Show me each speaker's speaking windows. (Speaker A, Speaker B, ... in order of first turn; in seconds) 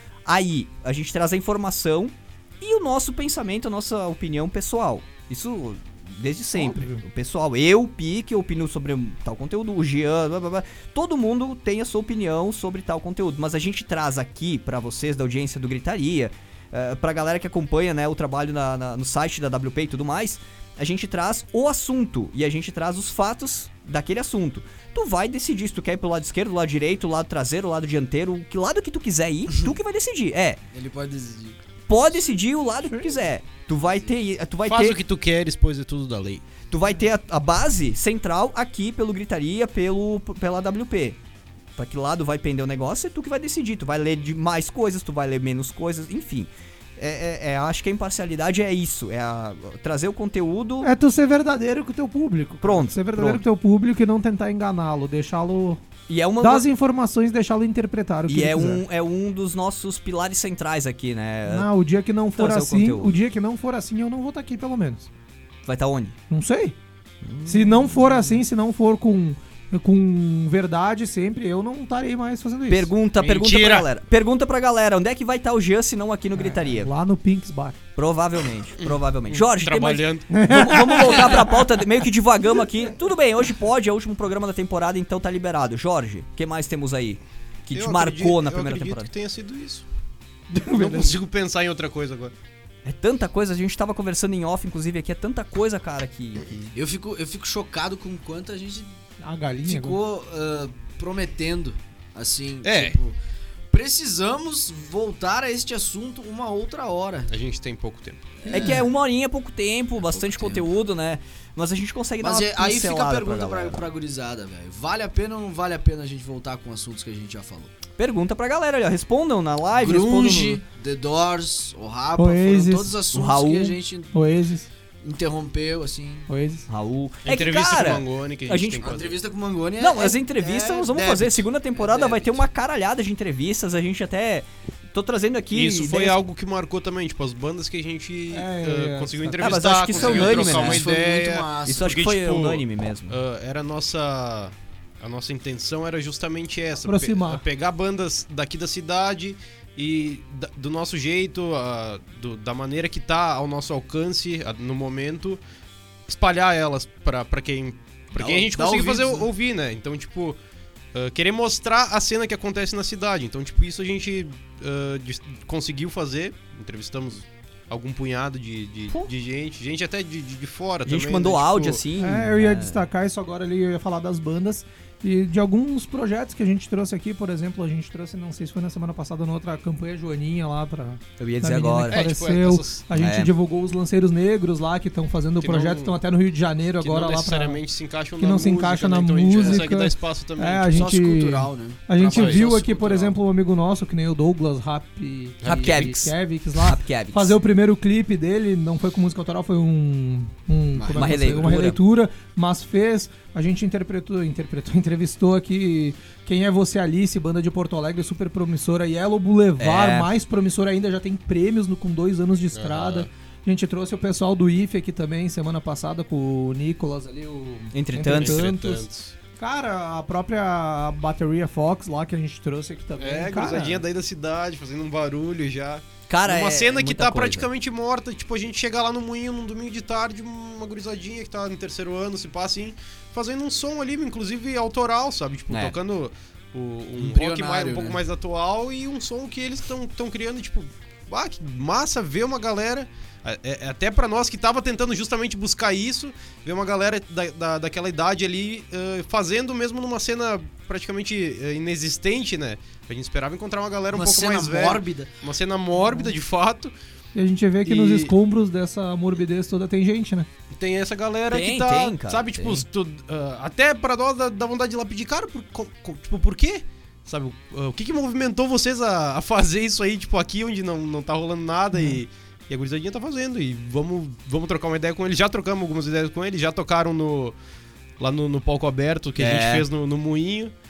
Speaker A: 0.2-30.6, 31.9-35.0, 36.7-41.2, 41.8-50.9, 52.6-53.4, 56.1-56.7, 58.3-61.7, 62.4-63.1, 65.7-66.2, 67.2-68.4, 72.7-76.9, 78.0-89.1, 92.8-96.7, 108.5-113.8, 118.0-120.6, 123.1-123.8, 126.7-128.9, 129.8-136.2, 139.4-140.8, 141.7-143.2, 170.8-172.8, 181.2-182.0, 182.9-183.3, 195.4-197.3, 200.9-201.8, 209.6-210.1, 217.7-218.4, 226.1-227.5, 235.5-235.8, 261.3-262.6, 279.2-279.6
Speaker B: 6.5-7.0, 32.9-33.2, 50.8-55.8, 56.4-58.8, 61.5-65.1, 66.3-66.8, 67.5-72.9, 76.3-77.8, 80.3-81.6, 90.5-91.2, 99.2-100.0, 108.5-108.8, 122.2-123.0, 124.1-124.7, 126.3-126.7, 138.3-139.6, 146.8-147.4, 172.0-187.6, 188.2-218.8, 219.4-223.8, 255.7-256.1, 257.1-260.3, 271.7-272.0
Speaker C: 30.7-31.6, 96.7-98.9, 99.6-103.2, 103.7-107.3, 108.4-108.8, 110.0-110.7, 112.2-117.7, 119.7-124.2, 125.0-126.3, 128.8-132.4, 139.9-141.9, 158.1-159.3, 189.3-189.6, 190.7-193.1, 195.5-195.8, 200.7-201.5, 237.0-238.0, 253.9-255.1
Speaker D: 34.6-36.4, 73.2-73.9, 78.8-80.3, 87.7-89.8, 90.7-92.3, 102.6-103.0, 107.3-108.3, 127.2-129.2, 135.5-155.4, 156.1-160.4, 160.9-171.8, 181.9-182.8, 185.4-186.0, 186.8-190.9, 192.1-192.5, 212.5-213.1, 218.0-219.1, 223.0-256.7, 257.6-258.1, 260.5-277.4, 278.0-280.5